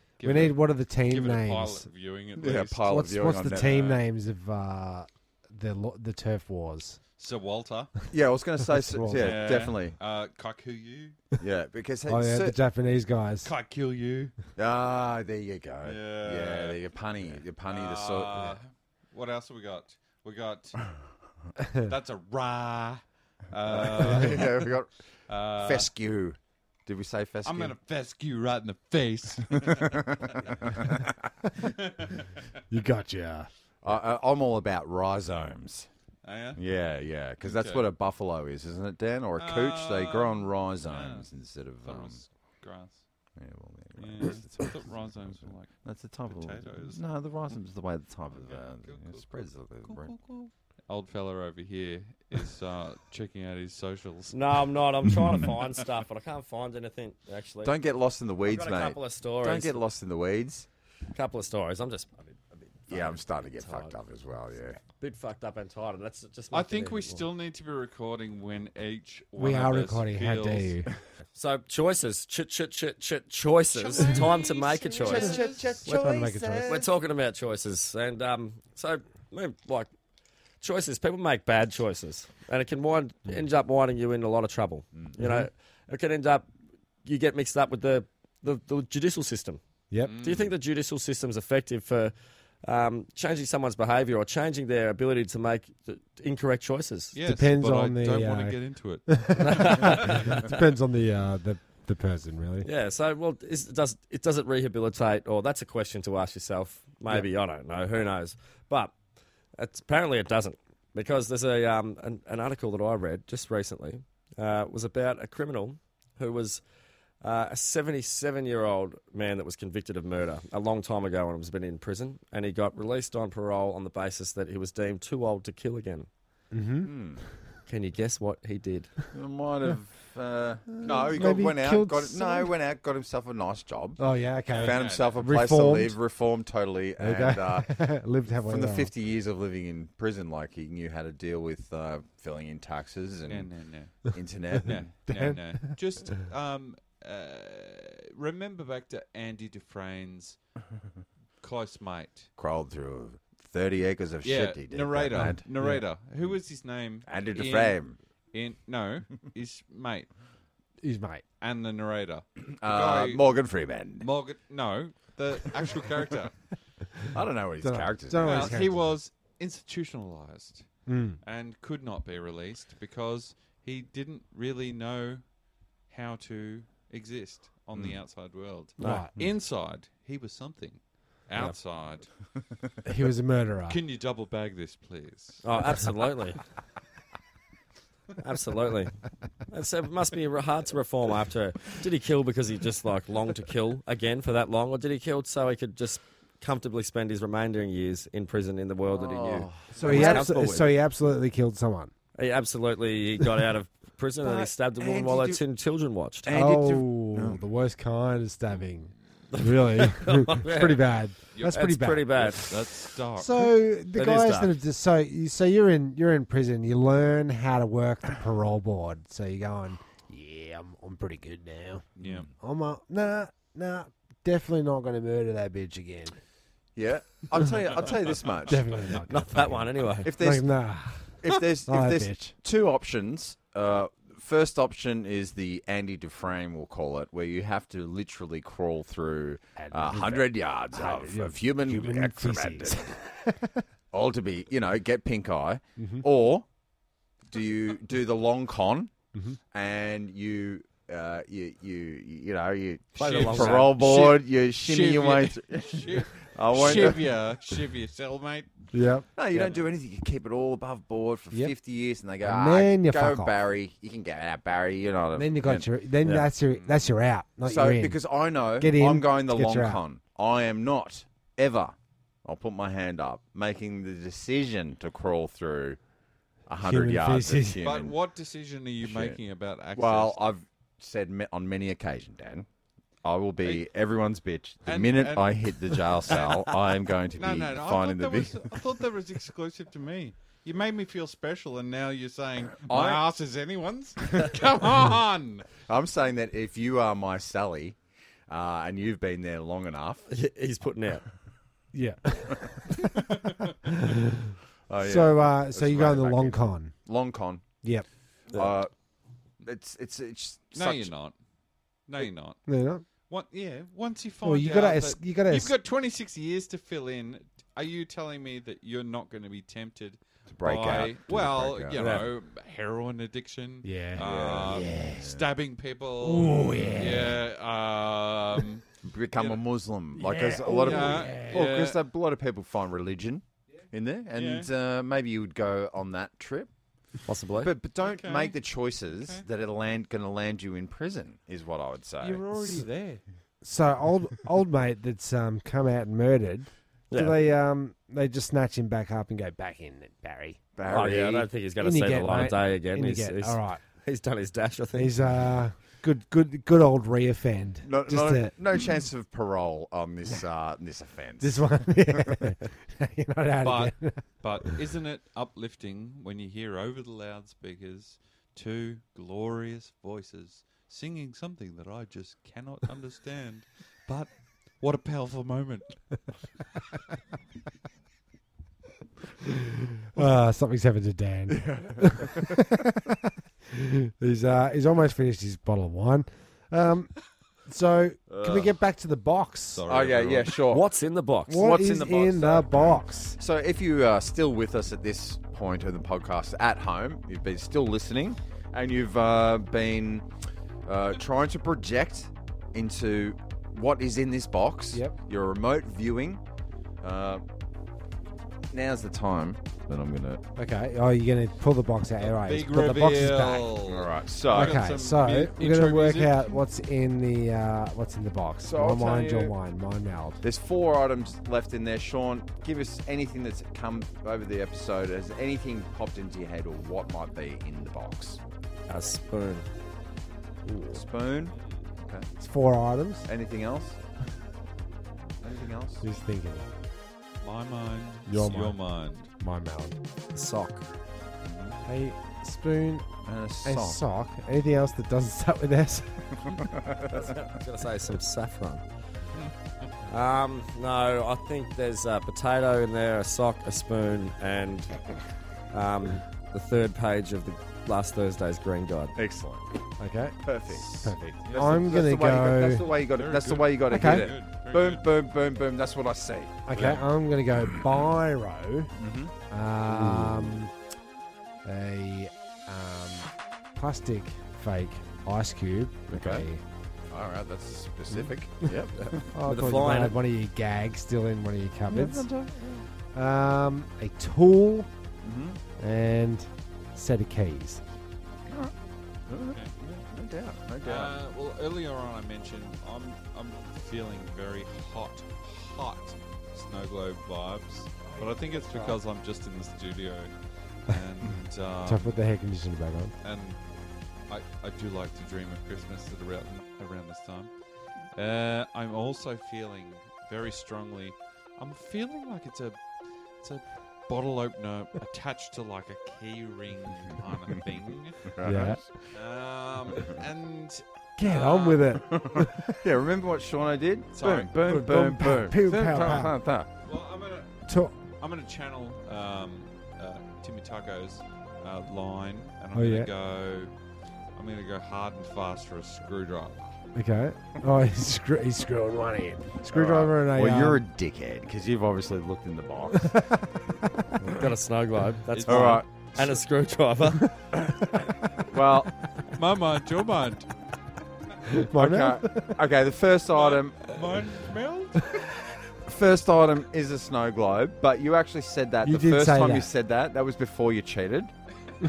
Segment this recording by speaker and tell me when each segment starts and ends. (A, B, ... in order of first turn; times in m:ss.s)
0:00.2-0:02.9 A
0:00.2-0:01.9 B
0:02.4-0:03.9 C
0:02.9-0:07.0 B
0:03.5-0:04.0 A
0:07.2-0:07.9 A
0:08.1-0:10.0 C
0:08.6-0:09.6 B
0:09.2-0:11.2 A
0:11.4-0:12.6 C
0:12.1-0:13.5 B
0:13.4-0:14.3 A
0:14.6-0:18.6 C
0:15.8-0:20.8 A
0:21.6-0:21.9 B
0:21.8-0:24.7 A
0:23.7-0:24.9 C
0:25.3-0:25.9 A
0:25.5-0:27.7 C
0:27.4-0:31.0 A
0:29.6-0:31.1 C
0:31.5-0:32.4 A
0:32.7-0:33.5 B
0:33.8-0:35.9 C
0:36.2-0:36.6 A
0:36.6-0:42.2 C
0:37.4-0:37.8 A
0:39.4-0:41.3 A
0:41.8-0:43.0 A
0:43.4-0:50.1 C
0:44.0-0:47.0 A
0:48.3-0:54.5 A
0:54.3-0:57.7 D
0:57.6-1:00.7 C
0:58.4-0:59.8 D
1:01.1-1:03.9 D
1:02.9-1:04.8 C
1:05.0-1:07.2 D
1:06.5-1:10.7 A
1:09.4-1:10.9 B
1:11.3-1:15.4 D
1:13.7-1:15.8 A
1:15.0-1:16.9 C
1:15.8-1:16.8 B
1:16.6-1:19.9 D
1:20.6-1:26.5 D
1:25.2-1:25.5 B
1:27.0-1:32.1 D
1:29.9-1:30.2 B
1:30.0-1:30.5 A
1:32.6-1:37.2 D
1:37.1-1:40.3 A
1:37.2-1:42.7 B
1:39.4-1:40.4 D
1:42.6-1:48.9 D
1:49.6-1:56.6 D
1:57.2-2:06.1 D
2:06.5-2:07.4 B
2:06.8-2:07.2 C
2:07.6-2:09.0 D
2:09.1-2:14.0 C
2:10.8-2:12.5 B
2:14.0-2:16.0 B
2:14.5-2:15.2 A
2:14.5-2:17.9 C
2:17.0-2:18.9 B
2:18.4-2:23.5 C
2:23.3-2:30.4 A
2:24.1-2:24.8 C
2:25.0-2:25.7 B
2:31.4-2:32.3 A
2:32.4-2:35.4 C
2:34.2-2:37.8 A
2:35.2-2:35.8 B
2:37.0-2:37.9 C
2:38.3-2:40.1 A
2:40.8-2:41.2 B
2:41.4-2:43.2 A
2:42.6-2:44.1 C
2:44.0-2:46.4 A
2:47.1-2:48.6 C
2:47.6-2:48.9 B
2:48.2-2:50.7 A
2:50.9-2:51.2 B
2:51.2-2:55.2 A
2:55.9-3:02.1 A
2:57.7-2:58.0 C
2:58.8-2:59.0 D
2:58.8-2:59.1 B
3:02.8-3:03.8 B
3:03.7-3:05.4 A
3:05.4-3:06.4 D
3:08.2-3:08.9 D
3:09.5-3:20.7 D
3:18.9-3:20.7 C
3:19.8-3:21.9 B
3:22.2-3:26.3 D
3:24.2-3:25.4 C
3:26.2-3:27.4 C
3:26.3-3:32.6 B
3:29.3-3:32.6 D
3:32.2-3:33.5 A
3:33.1-3:41.8 B
3:33.9-3:34.5 D
3:42.0-3:42.3 A
3:42.0-3:42.3 C
3:42.4-3:46.2 B
3:46.8-3:48.6 C
3:48.4-3:52.4 B
3:49.1-3:50.1 D
3:50.0-3:50.5 C
3:51.1-4:02.8 C
3:59.6-4:03.6 B
4:03.9-4:06.4 C
4:05.8-4:06.0 B
4:07.3-4:08.9 C
4:09.1-4:09.4 B
4:09.5-4:17.2 C
4:12.9-4:13.8 D
4:13.0-4:18.5 A
4:18.7-4:19.0 B
4:19.1-4:25.7 C
4:22.2-4:23.3 B
4:25.1-4:28.0 B
4:26.0-4:26.3 D
4:27.4-4:35.8 C
4:28.6-4:29.8 B
4:36.5-4:37.9 C
4:36.6-4:37.6 B
4:37.6-4:40.2 A
4:38.8-4:39.2 C
4:39.8-4:42.5 C
4:43.0-4:48.5 C
4:44.6-4:46.5 A
4:47.2-4:55.5 A
4:52.7-4:53.0 C
4:55.7-5:00.1 C
5:00.1-5:01.0 D
5:01.7-5:04.3 B
5:02.9-5:03.5 A
5:04.7-5:07.4 C
5:04.8-5:06.7 B
5:08.3-5:08.7 C
5:09.4-5:10.9 C
5:10.5-5:11.1 A
5:11.9-5:29.4 A
5:12.5-5:12.8 B
5:14.2-5:15.5 B
5:20.3-5:21.8 C
5:21.8-5:22.0 D
5:23.6-5:24.8 B
5:24.0-5:25.2 C
5:26.0-5:27.2 B
5:26.5-5:27.1 C
5:28.8-5:36.5 C
5:29.9-5:31.5 B
5:30.3-5:31.8 A
5:34.1-5:34.5 A
5:37.0-5:37.5 D
5:37.4-5:42.3 C
5:37.8-5:39.2 A
5:42.0-5:43.0 A
5:43.4-5:50.4 B
5:46.9-5:47.2 D
5:50.6-5:51.3 C
5:50.7-5:55.0 D
5:51.6-5:53.6 B
5:54.7-5:58.3 B
5:57.6-6:02.2 C
6:01.2-6:04.5 B
6:03.4-6:15.8 A
6:19.9-6:29.7 B
6:21.4-6:22.4 C
6:28.1-6:28.5 C
6:29.5-6:30.4 A
6:29.7-6:30.7 C
6:30.5-6:31.4 D
6:31.3-6:33.2 B
6:31.3-6:40.1 C
6:40.6-6:46.2 C
6:44.7-6:45.0 B
6:46.8-6:47.2 C
6:48.5-6:50.2 C
6:50.4-6:53.5 B
6:52.0-6:56.4 A
6:53.6-6:54.7 C
6:54.3-7:00.2 B
6:58.4-6:59.3 C
7:00.2-7:08.2 C
7:08.7-7:09.4 D
7:10.4-7:10.8 D
7:10.7-7:12.1 C
7:12.2-7:13.1 B
7:13.0-7:13.8 C
7:15.2-7:15.8 C
7:15.8-7:16.5 B
7:17.2-7:19.1 A
7:18.0-7:18.6 B
7:19.2-7:19.8 B
7:20.1-7:20.7 D
7:21.2-7:21.6 C
7:21.6-7:22.9 B
7:23.0-7:23.8 C
7:23.4-7:26.4 B
7:26.3-7:27.2 C
7:26.9-7:28.6 D
7:29.1-7:29.7 A
7:29.9-7:34.8 D
7:35.5-7:39.0 D
7:39.0-7:39.5 C
7:39.8-7:42.7 B
7:40.2-7:46.8 C
7:41.2-7:41.8 A
7:42.4-7:44.9 A
7:43.7-7:44.1 B
7:46.5-7:48.7 B
7:47.4-7:47.9 C
7:48.8-7:49.1 C
7:49.3-7:50.5 B
7:49.7-7:50.3 D
7:51.4-7:56.4 B
7:55.9-7:56.2 C
7:56.9-7:59.1 C
7:57.9-7:58.6 B
7:58.8-8:00.0 D
7:59.1-8:02.1 B
8:01.7-8:02.6 C
8:02.9-8:04.7 B
8:05.0-8:05.4 C
8:05.6-8:07.6 B
8:08.3-8:08.5 C
8:09.1-8:10.9 C
8:09.3-8:09.5 A
8:10.6-8:20.1 A
8:20.6-8:22.0 A
8:21.6-8:22.9 B
8:23.0-8:23.4 A
8:24.1-8:27.3 A
8:27.9-8:38.1 A
8:38.0-8:38.9 C
8:38.2-8:38.6 B
8:38.9-8:41.8 A
8:41.0-8:42.4 B
8:41.8-8:46.5 C
8:43.9-8:44.3 A
8:44.4-8:46.1 B
8:45.7-8:46.1 A
8:46.6-8:47.4 A
8:47.5-8:47.8 B
8:48.0-8:53.5 A
8:52.5-8:52.9 B
8:54.2-8:56.5 A
8:56.7-9:00.6 B
8:59.5-9:03.0 C
9:02.8-9:03.9 B
9:04.1-9:07.3 D
9:05.1-9:06.1 A
9:05.2-9:06.2 C
9:07.4-9:08.8 C
9:09.1-9:10.3 A
9:11.3-9:12.5 B
9:11.5-9:13.8 C
9:13.1-9:15.1 A
9:15.6-9:21.1 C
9:18.6-9:19.5 B